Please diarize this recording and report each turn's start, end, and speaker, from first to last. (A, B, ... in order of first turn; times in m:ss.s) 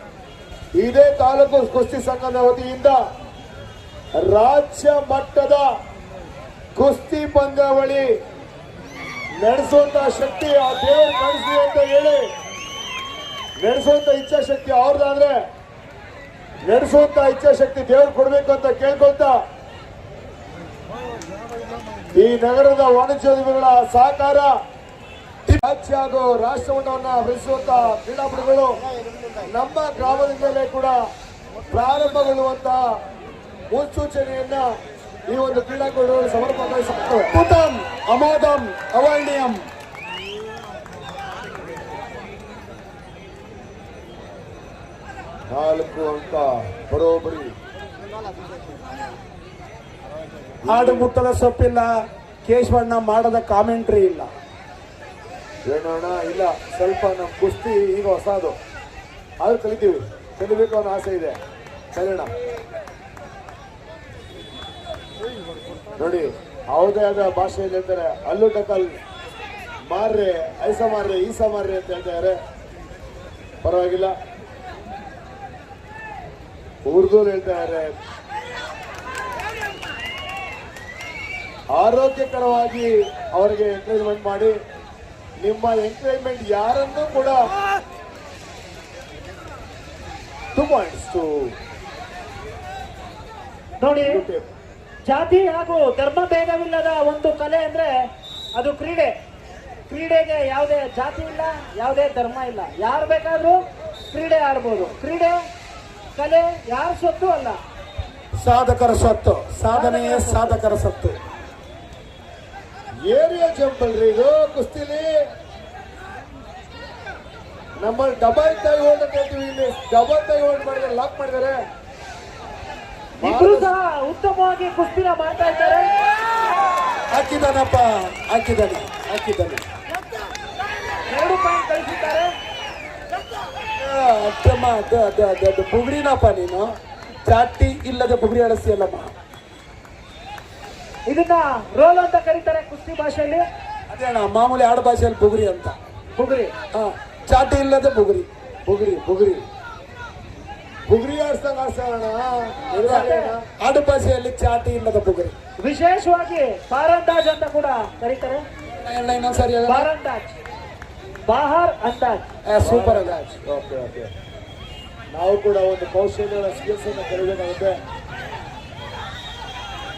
0:00.8-0:03.0 A
0:04.2-0:05.6 A
0:06.7-0:08.1 A
0:09.4-0:12.3 A
0:13.6-0:15.3 A
0:16.6-0:19.3 A
0:22.1-0:24.5 A
0:25.5-0:28.8 A
0:29.4-0:30.9 A
0:31.7-0:32.8 A
0:33.7-0:34.6 A
0:35.3-0:37.3 A
0:37.3-0:39.6 B
0:45.5-0:47.5 A
0:50.6-0:51.1 A
0:50.6-0:51.9 B
0:52.4-0:54.3 B
0:55.6-0:58.6 A
0:59.4-1:01.4 A
1:01.9-1:02.3 A
1:06.0-1:09.0 A
1:09.9-1:12.3 A
1:13.6-1:14.1 A
1:16.9-1:17.9 A
1:21.7-1:24.5 A
1:25.4-1:27.5 A
1:30.5-1:31.5 A
1:33.8-1:34.2 C
1:34.0-1:34.5 A
1:35.0-1:38.0 C
1:38.5-1:39.1 C
1:39.9-1:43.6 C
1:44.1-1:45.4 C
1:46.2-1:47.6 C
1:48.4-1:51.2 B
1:49.7-1:50.6 C
1:53.1-1:55.0 A
1:57.8-2:01.5 A
2:03.2-2:03.7 A
2:03.2-2:05.9 C
2:07.1-2:09.6 B
2:11.1-2:12.3 C
2:13.8-2:16.6 B
2:17.2-2:19.1 B
2:21.1-2:23.4 C
2:23.9-2:25.8 B
2:26.2-2:26.5 C
2:26.7-2:28.3 B
2:28.6-2:29.4 A
2:30.9-2:33.4 A
2:32.7-2:35.3 B
2:32.9-2:33.3 C
2:35.6-2:38.4 C
2:38.8-2:39.9 B
2:39.6-2:40.4 C
2:41.3-2:42.3 C
2:42.5-2:43.2 B
2:42.6-2:44.1 A
2:45.1-2:47.8 A